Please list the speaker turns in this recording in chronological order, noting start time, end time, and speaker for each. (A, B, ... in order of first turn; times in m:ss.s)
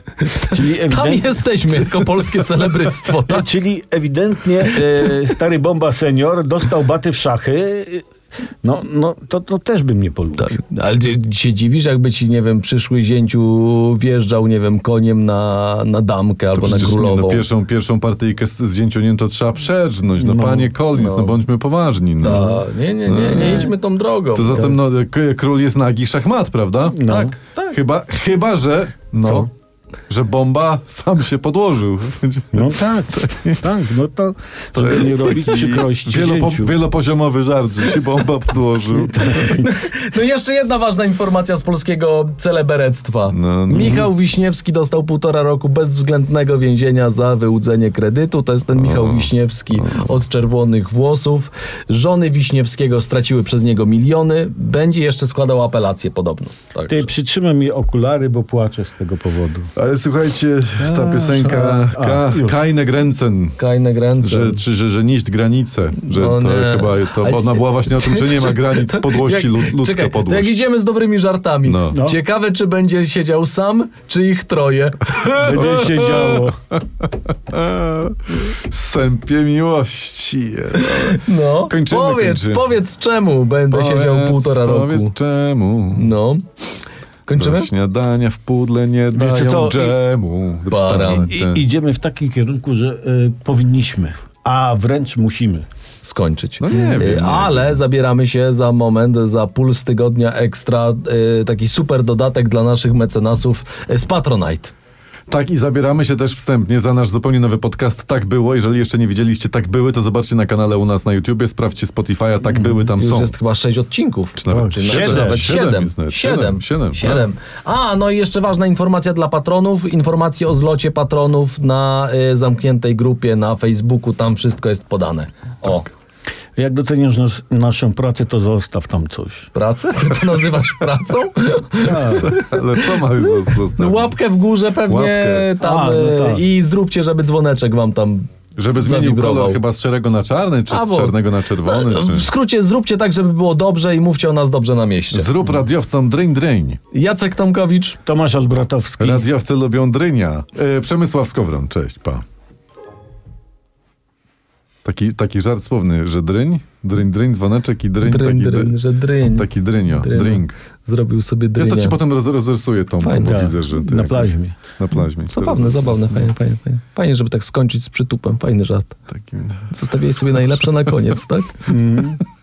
0:00.2-0:03.5 A
0:00.5-0:01.4 B
0:03.2-0:08.1 B
0:08.6-0:10.5 B
0:10.4-0:17.4 A
0:16.6-0:23.7 C
0:20.2-0:20.7 B
0:20.9-0:21.4 A
0:22.2-0:24.8 A
0:22.2-0:22.6 B
0:24.4-0:29.5 C
0:26.9-0:27.3 B
0:27.1-0:27.8 A
0:29.2-0:29.5 B
0:30.1-0:33.6 C
0:32.5-0:36.7 B
0:34.7-0:39.6 C
0:39.0-0:39.7 B
0:39.3-0:57.1 A
0:43.3-0:44.1 C
0:43.8-0:44.1 B
0:48.8-0:50.0 C
0:56.9-0:59.7 B
0:59.8-1:03.6 C
1:00.8-1:02.6 B
1:01.4-1:01.9 A
1:03.6-1:04.6 A
1:04.2-1:10.6 C
1:06.0-1:16.0 A
1:11.6-1:12.0 C
1:11.9-1:12.2 B
1:15.2-1:22.7 C
1:15.4-1:16.6 B
1:20.8-1:25.2 A
1:23.7-1:26.1 C
1:25.9-1:26.4 A
1:27.3-1:27.7 A
1:27.4-1:31.6 C
1:29.1-1:30.2 B
1:30.7-1:31.3 A
1:30.9-1:35.7 B
1:36.0-1:44.7 A
1:36.6-1:37.8 C
1:45.3-1:53.3 C
1:53.0-2:05.9 A
1:54.4-1:57.3 C
1:54.5-1:55.6 B
2:06.6-2:09.5 B
2:09.5-2:18.3 A
2:11.8-2:12.3 B
2:12.1-2:14.1 C
2:14.9-2:15.5 C
2:15.6-2:16.4 B
2:18.6-2:22.3 C
2:18.8-2:19.6 A
2:20.7-2:25.3 A
2:25.1-2:26.8 C
2:26.9-2:28.0 A
2:28.0-2:29.2 B
2:29.0-2:32.2 C
2:34.8-2:40.6 C
2:38.0-2:42.0 A
2:41.6-2:46.3 C
2:43.0-2:43.4 A
2:43.2-2:44.6 B
2:45.3-2:49.0 A
2:49.1-2:49.7 C
2:49.7-2:51.7 A
2:51.7-2:52.2 B